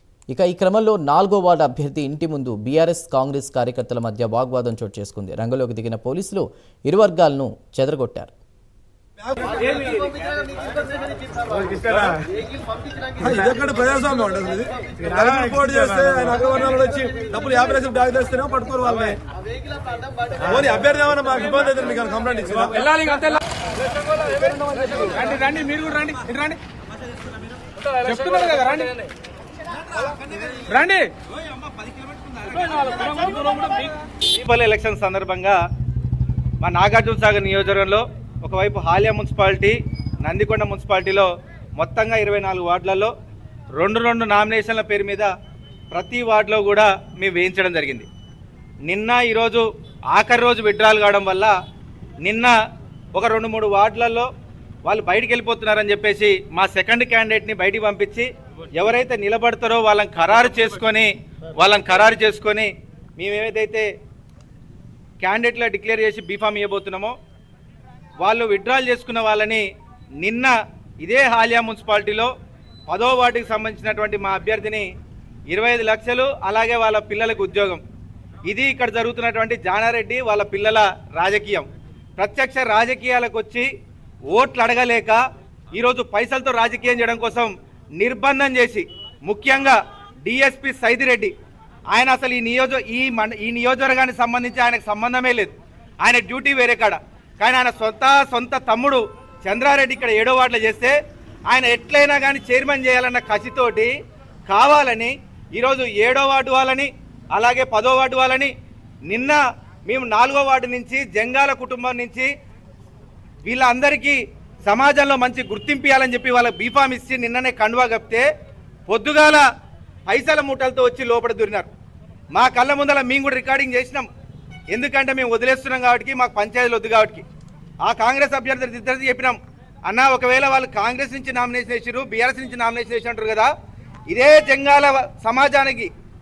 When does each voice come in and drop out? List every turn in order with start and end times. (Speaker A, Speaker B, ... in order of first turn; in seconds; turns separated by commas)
Speaker A: 0.3-8.3, Speaker B: 11.7-12.2, Speaker B: 13.2-19.2, Speaker B: 20.4-22.9, Speaker C: 22.8-23.4, Speaker C: 24.1-26.6, Speaker C: 27.8-29.0, Speaker D: 29.9-30.7, Speaker C: 30.7-31.1, Speaker D: 31.5-35.6, Speaker C: 33.3-33.7, Speaker D: 36.6-43.1, Speaker D: 43.8-45.3, Speaker D: 45.9-48.1, Speaker D: 48.9-51.5, Speaker D: 52.2-52.5, Speaker D: 53.1-54.3, Speaker D: 54.9-63.9, Speaker D: 65.2-67.1, Speaker D: 68.2-69.7, Speaker D: 70.2-72.3, Speaker D: 72.9-74.9, Speaker D: 75.5-77.8, Speaker D: 78.5-83.7, Speaker D: 84.3-85.2, Speaker D: 85.8-91.3, Speaker D: 91.9-101.0, Speaker D: 101.5-103.9, Speaker D: 104.5-108.5, Speaker D: 109.1-112.3, Speaker D: 113.5-118.3, Speaker D: 118.9-119.5, Speaker D: 120.1-121.7, Speaker D: 122.3-124.1, Speaker D: 124.7-127.2, Speaker D: 127.9-133.5, Speaker D: 134.1-135.9